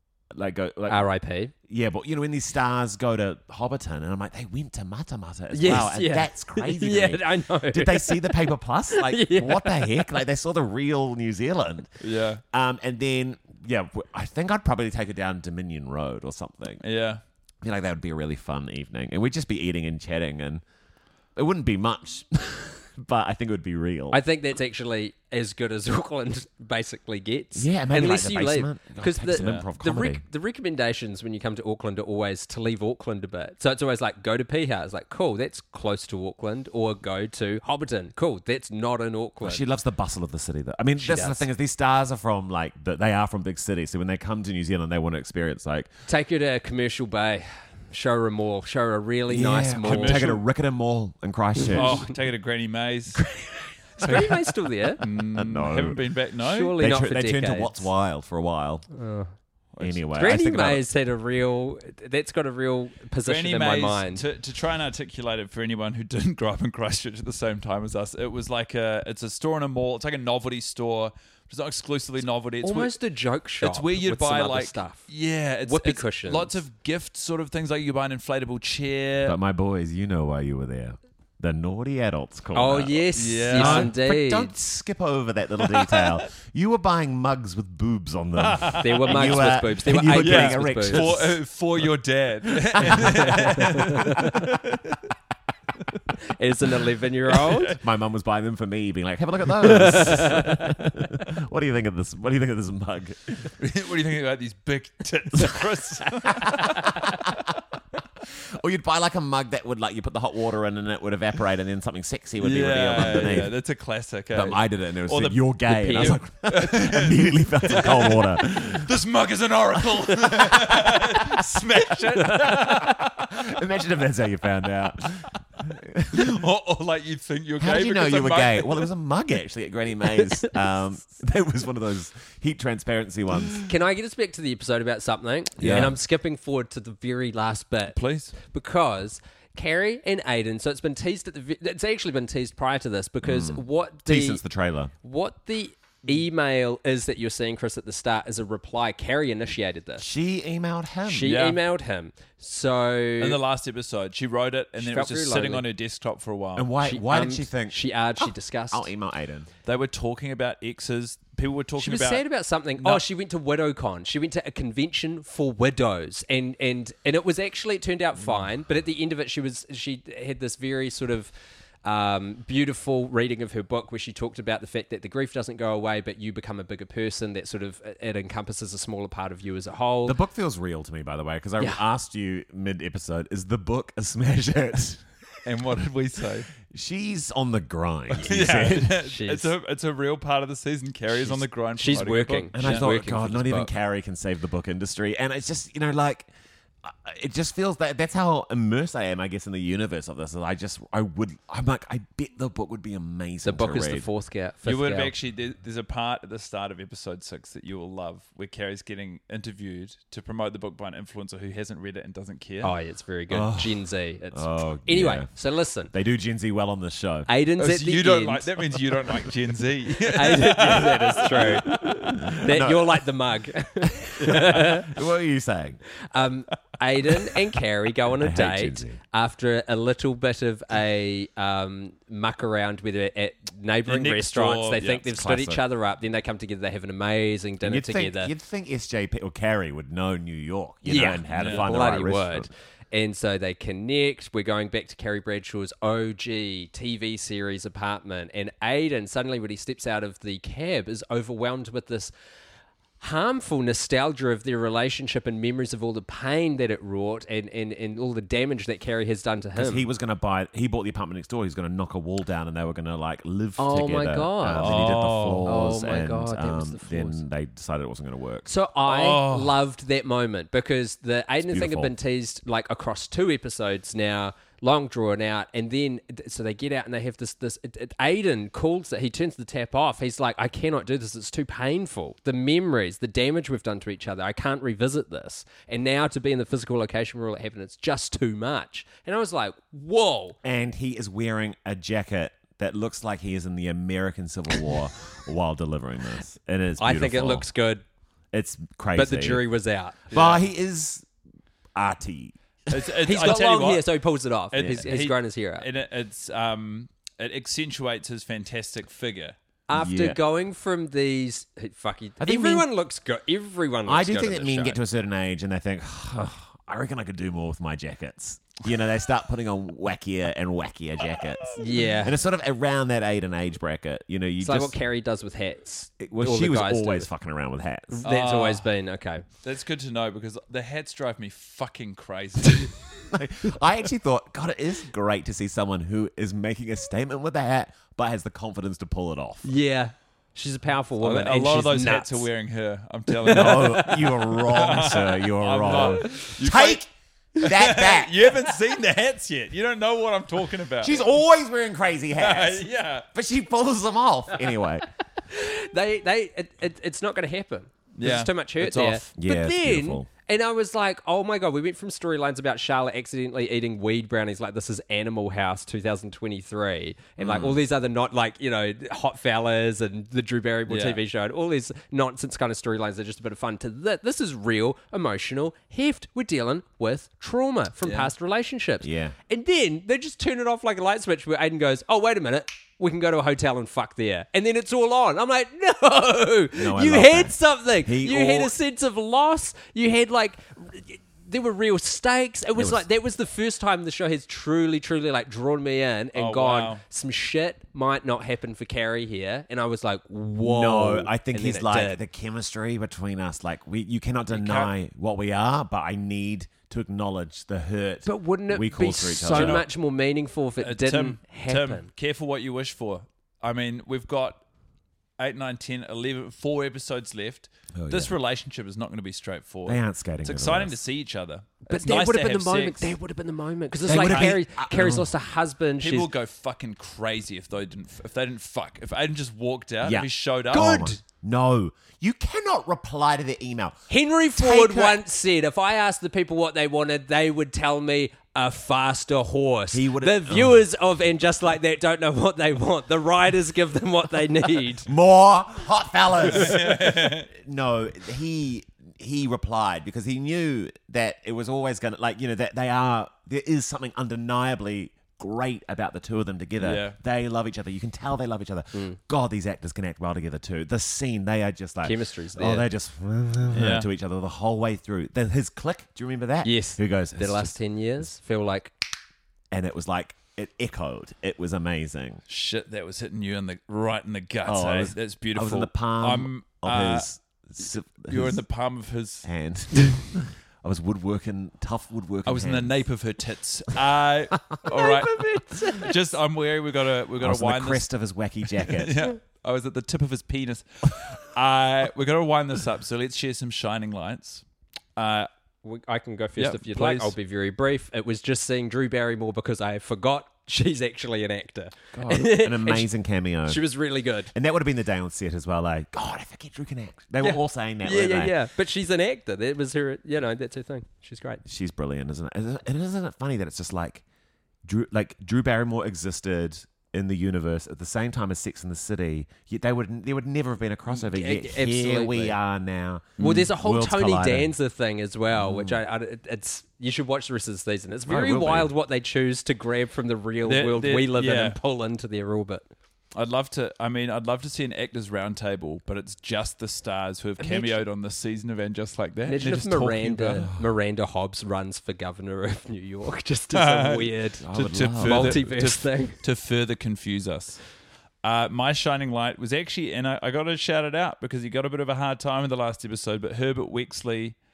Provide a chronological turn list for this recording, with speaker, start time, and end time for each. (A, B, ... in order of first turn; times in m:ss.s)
0:00.3-0:01.0 A
0:00.9-0:01.5 B
0:01.7-0:11.9 A
0:05.5-0:10.1 B
0:12.0-0:12.4 C
0:12.5-0:16.8 A
0:16.8-0:17.2 C
0:17.6-0:20.6 A
0:21.4-0:24.2 A
0:24.1-0:39.6 B
0:27.6-0:30.2 A
0:29.4-0:29.7 C
0:39.4-0:45.9 A
0:41.0-0:41.5 B
0:46.1-0:50.2 B
0:49.3-0:52.1 A
0:49.8-0:50.4 C
0:51.7-0:53.2 C
0:54.0-0:55.0 B
0:54.0-0:56.8 C
0:55.0-0:56.0 A
0:56.4-0:57.9 B
0:56.8-0:58.9 A
0:58.9-0:59.3 B
0:59.7-1:00.0 C
0:59.8-1:00.8 A
1:00.2-1:04.2 B
1:03.2-1:13.0 C
1:12.6-1:15.0 B
1:13.6-1:19.4 C
1:15.6-1:16.6 B
1:19.2-1:31.4 A
1:22.6-1:24.5 B
1:23.2-1:23.9 C
1:28.4-1:29.4 C
1:28.8-1:31.1 B
1:30.2-1:35.0 C
1:32.8-1:34.3 A
1:33.0-1:34.3 B
1:36.4-1:37.8 B
1:37.3-1:37.8 C
1:37.8-1:43.5 A
1:39.7-1:40.7 B
1:43.6-1:47.0 C
1:46.3-1:47.3 A
1:48.5-1:53.6 A
1:52.4-2:03.4 C
1:54.3-1:58.9 A
1:55.8-1:56.2 B
1:59.9-2:01.4 A
2:02.3-2:02.9 B
2:03.3-2:06.3 A
2:06.1-2:08.9 C
2:07.6-2:13.7 A
2:13.6-2:24.4 B
2:15.6-2:16.0 A
2:15.6-2:15.9 C
2:17.9-2:18.4 C
2:23.2-2:24.9 A
2:25.0-2:30.1 B
2:30.0-2:31.4 A
2:31.1-2:33.4 B
2:31.3-2:31.6 C
2:33.2-2:36.7 C
2:34.8-2:35.6 B
2:36.6-2:39.5 A
2:36.8-2:38.9 B
2:39.6-2:42.2 C
2:41.8-2:51.3 B
2:42.8-2:43.0 C
2:51.8-3:00.2 B
3:00.0-3:05.0 A
3:05.4-3:06.5 C
3:06.6-3:09.0 A
3:08.2-3:12.9 C
3:09.0-3:09.5 B
3:11.1-3:13.7 B
3:12.5-3:16.3 A
3:16.8-3:24.1 A
3:23.4-3:25.1 B
3:24.6-3:32.7 C
3:32.6-3:35.9 B
3:33.3-3:35.3 A
3:35.9-3:37.3 A
3:37.3-3:38.5 B
3:37.6-3:42.2 C
3:40.1-3:41.7 B
3:41.3-3:43.0 A
3:42.4-3:44.9 B
3:44.1-3:45.8 A
3:46.1-3:58.3 B
3:48.2-3:49.0 A
3:53.9-3:55.0 C
3:54.8-3:55.6 A
3:57.6-4:02.5 A
4:00.9-4:12.1 B
4:01.3-4:01.6 C
4:13.0-4:19.9 B
4:19.6-4:28.5 A
4:23.6-4:27.2 B
4:24.6-4:25.5 C
4:28.5-4:50.4 B
4:28.9-4:29.6 C
4:31.4-4:31.9 A
4:50.4-4:57.5 A
4:56.8-4:57.8 B
4:58.3-4:59.4 A
4:58.9-5:00.0 B
5:00.1-5:00.4 C
5:00.1-5:01.1 A
5:01.8-5:02.4 A
5:02.7-5:03.9 C
5:03.0-5:05.7 B
5:04.5-5:09.4 C
5:09.7-5:14.8 B
5:09.8-5:10.2 A
5:12.2-5:12.7 A
5:13.9-5:24.8 A
5:21.6-5:22.2 B
5:24.4-5:27.1 B
5:25.7-5:28.0 A
5:27.9-5:29.2 B
5:28.0-5:28.7 C
5:29.4-5:32.7 C
5:33.1-5:39.5 A
5:39.4-5:42.3 B
5:41.0-5:46.8 C
5:43.2-5:44.2 B
5:43.3-5:46.9 A
5:45.7-5:46.0 B
5:47.4-5:51.1 C
5:47.4-5:48.2 A
5:50.8-5:54.9 A
5:52.2-5:53.1 C
5:55.3-6:42.0 B
5:58.0-5:59.1 C
5:59.2-6:00.1 A
6:07.2-6:07.6 A
6:10.7-6:11.0 C
6:17.8-6:18.1 C
6:18.8-6:19.2 A
6:26.6-6:28.5 A
6:32.6-6:32.8 A
6:36.1-6:36.8 C
6:40.4-6:49.6 A
6:44.3-6:44.7 C
6:48.0-6:51.9 B
6:49.3-6:49.7 C
6:50.6-6:54.4 C
6:55.2-7:02.9 C
6:57.8-6:58.2 A
6:59.7-7:00.8 A
7:01.7-7:06.1 B
7:03.9-7:05.1 A
7:03.9-7:04.4 C
7:05.8-7:10.7 C
7:09.8-7:13.9 A
7:10.5-7:11.0 B
7:13.9-7:24.9 B
7:14.4-7:15.0 A
7:19.7-7:20.6 A
7:24.9-7:47.6 A
7:26.2-7:27.3 C
7:36.6-7:37.0 C
7:38.7-7:39.0 B
7:41.8-7:42.7 B
7:43.5-7:43.9 C
7:46.4-7:48.7 B
7:49.5-7:52.2 A
7:52.3-7:59.3 C
7:54.5-7:58.4 A
7:59.2-8:02.9 A
8:02.2-8:07.9 C
8:04.7-8:05.7 A
8:05.3-8:05.9 B
8:07.2-8:09.0 A
8:08.7-8:14.4 C
8:15.0-8:15.3 C
8:15.6-8:22.9 B
8:16.4-8:17.1 C
8:21.9-8:23.6 A
8:23.5-8:24.3 B
8:24.3-8:28.4 A
8:27.2-8:31.4 B
8:31.4-8:34.0 A
8:34.6-8:44.5 A
8:40.9-8:42.4 B
8:43.2-8:43.4 C
8:43.2-8:52.7 B
8:45.3-8:45.8 A
8:48.1-8:48.7 A
8:50.4-8:51.6 C
8:53.2-9:00.5 C
8:57.4-8:57.8 B
8:59.3-9:06.2 B
9:03.5-9:04.1 C
9:04.4-9:05.5 A
9:04.7-9:07.6 C
9:08.2-9:14.4 C